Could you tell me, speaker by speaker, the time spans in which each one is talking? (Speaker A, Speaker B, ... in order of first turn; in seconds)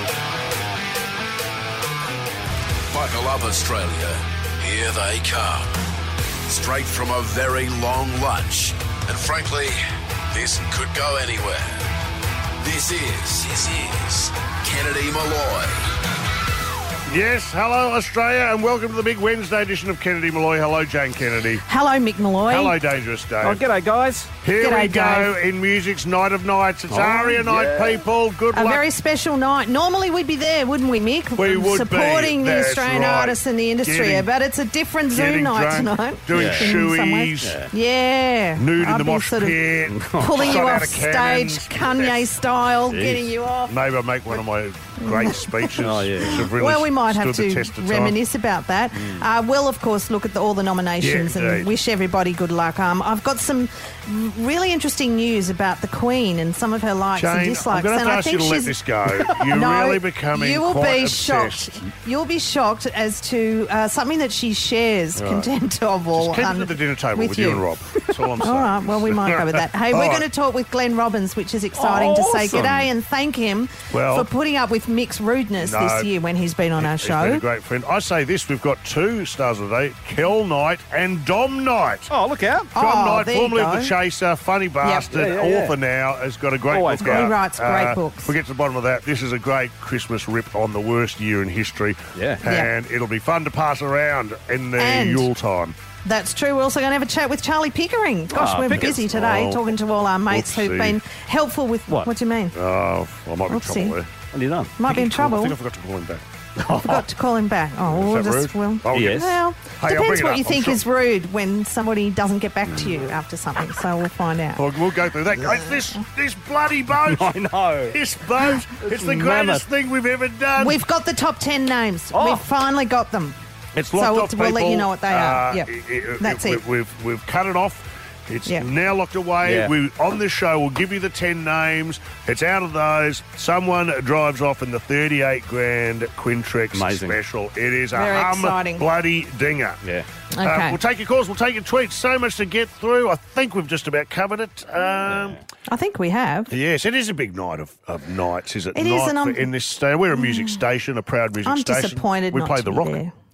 Speaker A: 2.9-5.7, 6.5-9.8, 10.3-11.8, 12.6-15.8
Speaker B: 17.1-21.6, 22.5-23.6, 24.4-28.8, 31.4-34.3, 35.1-37.6, 38.6-42.2, 43.7-48.2, 51.0-51.7, 57.1-61.8, 65.2-65.5, 66.1-70.2, 73.9-74.3, 75.6-76.1, 76.8-82.1, 82.7-95.8, 98.7-99.7, 100.3-101.0, 102.5-104.2, 104.8-106.2, 107.8-110.8, 114.5-117.3, 117.9-120.8, 123.7-139.8, 140.4-145.4, 146.5-153.0
Speaker C: 21.6-22.8, 24.6-25.3, 28.5-39.6, 40.1-43.7, 45.0-45.7, 46.2-67.6, 68.4-77.4, 82.7-83.9, 84.8-85.1, 86.9-88.3, 92.4-92.7, 94.8-95.3, 96.0-102.5, 103.5-104.0, 104.8-105.6, 106.7-114.6, 120.6-123.4, 123.9-126.6, 137.9-138.9, 140.3-140.8, 145.7-146.5, 148.7-149.5, 150.1-150.6, 151.4-153.1
Speaker D: 23.4-24.3, 26.9-28.0, 36.3-36.8, 37.4-37.7, 39.9-40.5, 42.9-43.2, 45.8-46.5, 71.7-72.9, 82.1-82.7, 85.1-85.8, 86.7-87.3, 92.2-92.4, 98.3-98.9, 104.3-104.8, 106.6-107.0, 108.9-109.4, 112.7-113.1, 117.0-118.0, 118.8-119.6, 122.1-122.4, 129.4-129.7, 136.7-137.2, 145.1-145.4